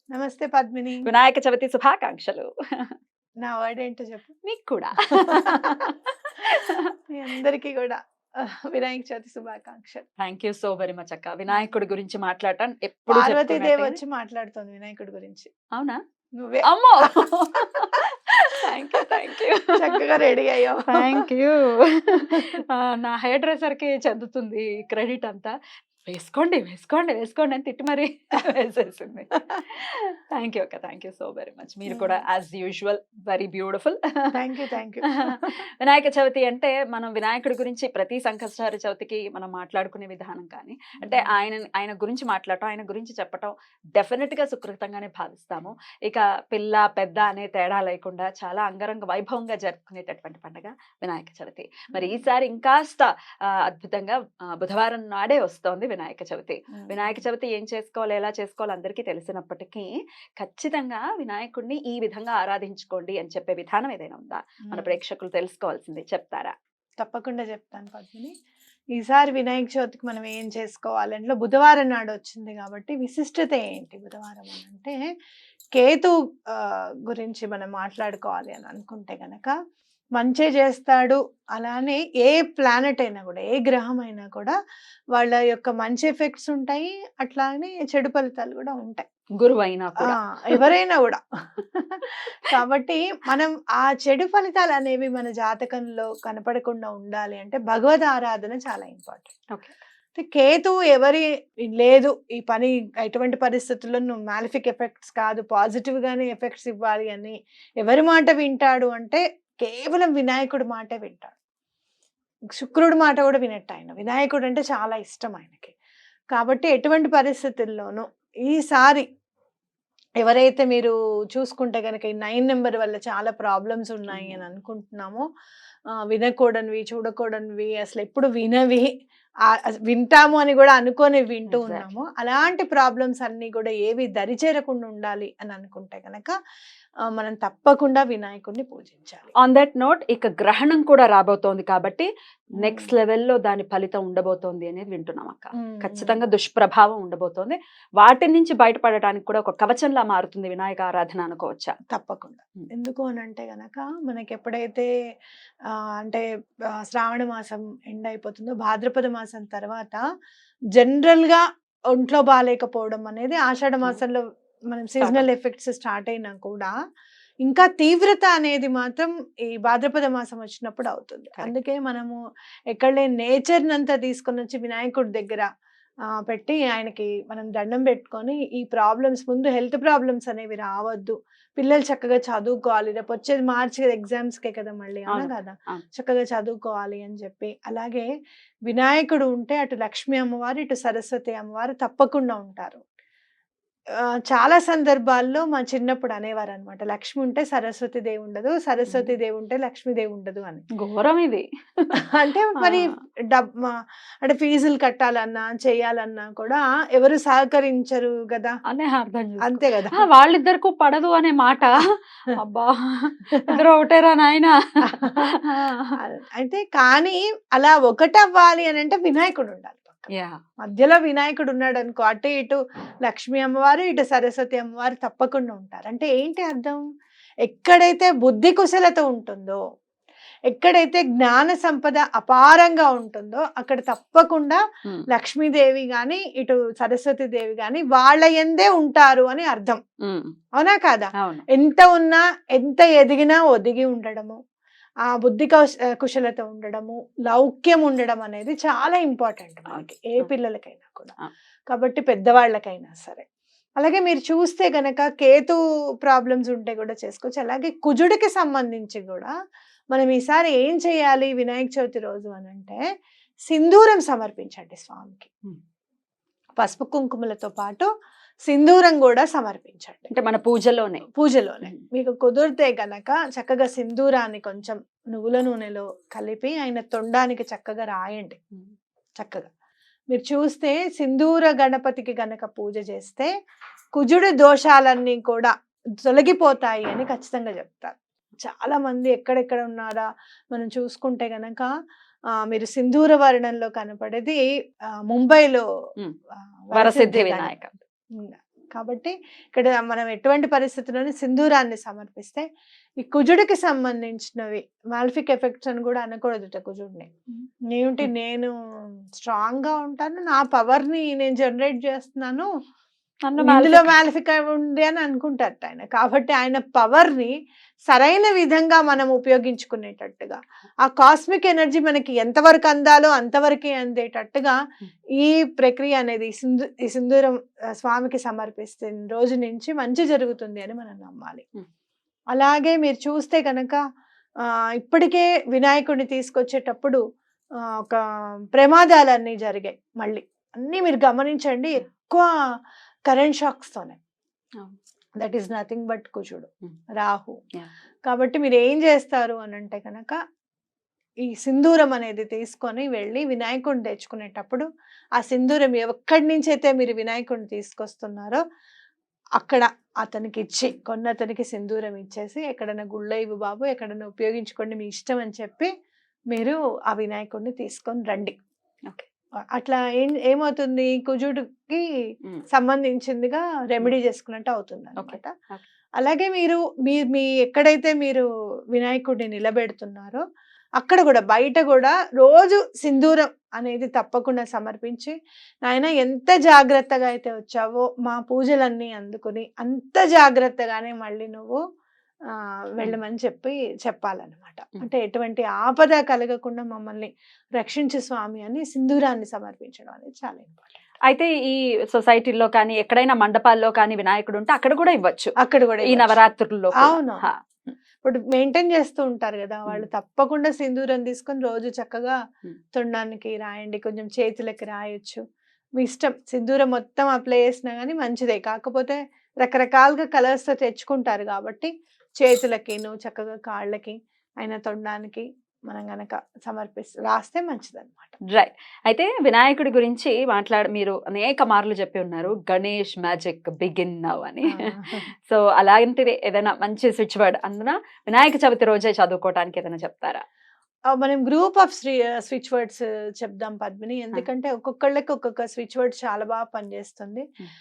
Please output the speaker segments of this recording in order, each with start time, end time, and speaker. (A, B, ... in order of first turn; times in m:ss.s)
0:00.1-0:01.1 A
0:01.0-0:02.9 B
0:03.4-0:04.4 A
0:04.4-0:06.9 B
0:05.1-0:05.8 A
0:07.1-0:10.0 A
0:10.2-0:14.0 B
0:13.1-0:15.5 A
0:15.7-0:16.0 B
0:16.4-0:17.9 A
0:16.6-0:20.0 B
0:19.7-0:21.2 A
0:20.9-0:25.5 B
0:26.1-0:34.3 B
0:31.9-0:32.2 A
0:34.3-0:35.5 A
0:35.1-1:06.5 B
0:41.0-0:41.3 A
0:51.9-0:52.2 A
0:56.7-0:57.2 A
1:04.7-1:05.0 A
1:07.0-1:08.3 A
1:09.0-1:15.1 A
1:15.7-1:19.5 A
1:20.2-1:24.6 A
1:25.1-1:29.0 A
1:29.4-1:30.7 B
1:30.0-1:39.3 A
1:40.2-1:41.2 A
1:41.8-1:51.3 A
1:52.5-1:55.7 A
1:56.3-1:59.0 A
2:00.2-2:05.2 A
2:04.1-2:04.4 B
2:06.1-2:08.9 A
2:09.9-2:16.3 A
2:11.5-2:11.9 B
2:17.1-2:19.3 A
2:19.4-2:31.7 B
2:22.6-2:22.9 A
2:25.6-2:26.2 A
2:31.9-2:34.9 A
2:35.7-2:36.2 A
2:36.9-2:40.0 A
2:40.8-2:46.7 A
2:45.0-2:45.3 B
2:47.4-2:52.2 A
2:52.7-2:55.5 A
2:56.2-3:08.1 A
3:05.1-3:05.8 B
3:08.7-3:12.8 A
3:14.3-3:20.6 A
3:20.8-3:21.9 B
3:22.0-3:28.5 A
3:22.6-3:22.9 B
3:28.7-3:36.0 B
3:29.4-3:30.1 A
3:33.3-3:33.6 A
3:34.8-3:35.2 A
3:36.0-3:40.1 A
3:40.1-3:40.4 B
3:40.6-3:46.8 A
3:47.4-3:49.6 A
3:50.5-3:59.8 A
4:00.0-4:00.3 B
4:00.6-4:04.4 A
4:01.2-4:01.4 B
4:05.1-4:11.1 A
4:09.7-4:10.3 B
4:11.7-4:13.2 A
4:13.8-4:19.3 A
4:19.9-4:22.8 A
4:23.5-4:25.3 A
4:26.6-4:27.9 A
4:28.5-4:30.1 A
4:30.1-4:31.0 B
4:31.1-4:38.4 A
4:39.2-4:39.5 A
4:40.1-4:43.3 A
4:43.9-4:45.5 A
4:46.0-4:51.7 A
4:52.4-4:54.4 A
4:55.1-4:55.6 A
4:56.7-4:57.5 A
4:56.7-4:57.7 B
4:58.1-5:02.4 A
5:03.0-5:07.1 A
5:07.7-5:08.5 A
5:09.2-5:12.5 A
5:13.3-5:14.0 B
5:13.4-5:17.3 A
5:17.9-5:24.6 A
5:25.2-5:31.4 A
5:32.3-5:33.8 A
5:34.4-5:37.0 A
5:37.8-5:42.3 A
5:43.1-5:44.0 A
5:45.2-5:47.4 A
5:48.0-5:50.2 A
5:51.3-5:54.6 A
5:55.2-5:58.4 A
5:59.4-6:05.7 A
6:06.3-6:08.4 A
6:09.5-6:11.8 A
6:12.5-6:15.3 A
6:15.0-6:15.6 B
6:16.0-6:20.2 A
6:20.8-6:31.6 A
6:32.8-6:40.7 A
6:41.1-6:47.7 B
6:45.4-6:46.2 A
6:46.8-6:47.2 A
6:48.0-6:52.2 A
6:52.7-6:55.2 A
6:55.8-7:08.2 A
7:08.3-7:20.2 B
7:14.5-7:15.0 A
7:20.9-7:27.2 A